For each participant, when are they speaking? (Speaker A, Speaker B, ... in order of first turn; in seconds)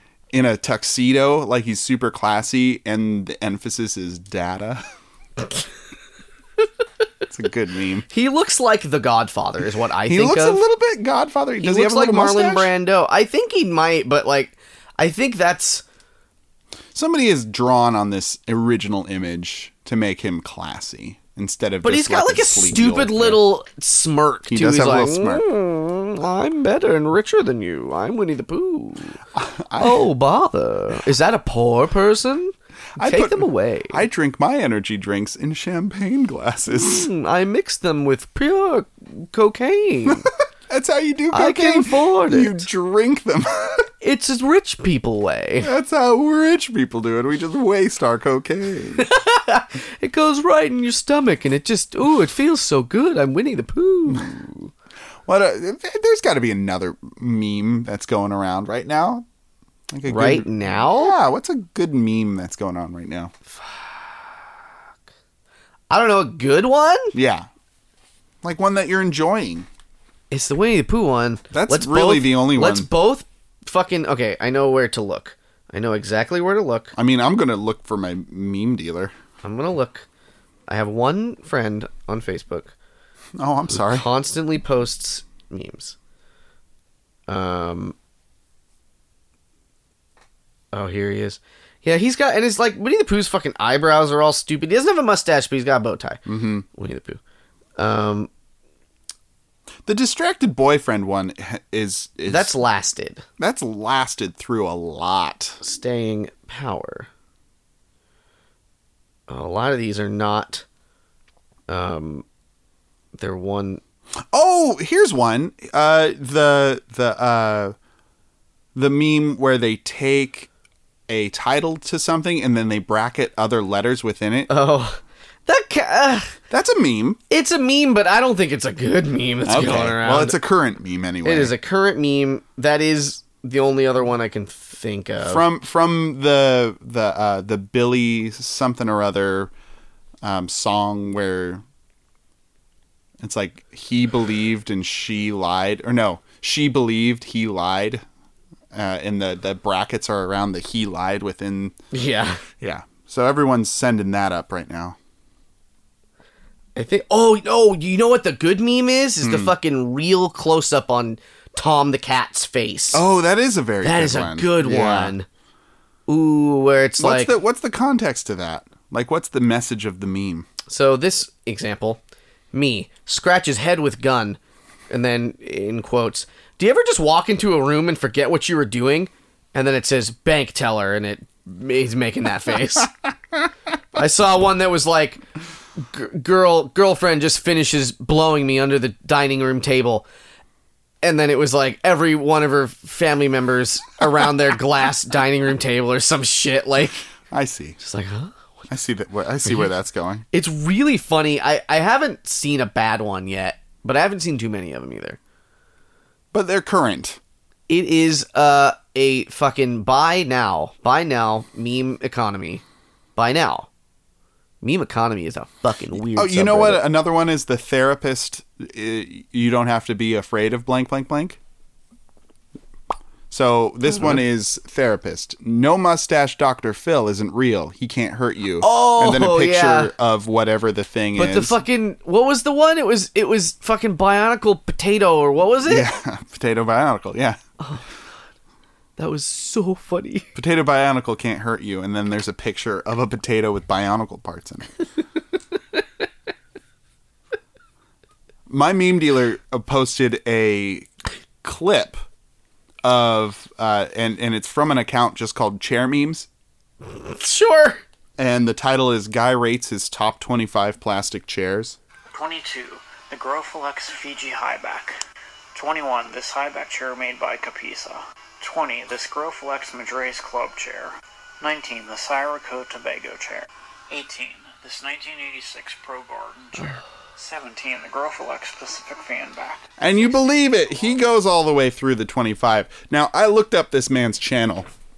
Speaker A: 0.3-4.8, 7.3-8.1, 10.1-12.7, 16.9-23.5, 24.5-25.4, 29.3-30.1, 33.0-37.1, 40.1-43.9, 45.6-49.1, 54.1-54.7, 55.3-59.2, 59.9-63.3, 67.1-67.5, 68.4-69.7, 71.5-72.9, 77.0-79.1, 83.4-84.1, 96.3-96.7, 99.9-102.6, 103.4-105.6, 114.3-117.8, 118.8-120.5, 121.1-124.5, 126.5-127.2, 129.4-131.5, 135.2-139.5, 140.2-141.6, 143.2-148.0, 148.7-151.7, 152.6-155.0, 159.2-159.5, 162.9-165.1, 167.0-170.5, 197.3-197.8, 198.7-200.2, 206.3-207.2, 216.1-221.4, 223.3-231.6, 235.7-237.4, 240.3-244.7, 248.5-250.9, 251.4-252.0, 252.8-256.3, 258.2-261.8, 279.8-284.7
Speaker B: 8.1-10.6, 11.6-15.8, 21.8-29.2, 29.8-34.0, 36.7-40.3, 41.3-42.7, 44.0-45.7, 49.0-54.5, 60.1-61.2, 63.5-64.4, 65.9-67.2, 70.3-76.9, 79.4-80.1, 80.7-82.7, 83.7-86.0, 87.3-88.0, 90.7-97.2, 97.8-98.3, 102.3-103.2, 105.6-107.1, 109.3-110.7, 111.7-112.3, 113.2-113.8, 124.5-126.3, 127.3-130.4, 131.2-135.4, 151.9-152.4, 156.8-163.0, 163.8-165.3, 166.1-167.3, 170.7-172.0, 172.5-182.9, 183.9-185.2, 185.8-190.1, 191.0-197.1, 197.8-198.4, 200.3-205.2, 207.7-212.6, 213.2-213.7, 214.6-216.8, 223.9-224.2, 228.6-229.9, 231.2-235.9, 237.6-237.9, 239.0-240.3, 256.8-257.8
Speaker C: 262.1-264.9, 265.5-280.9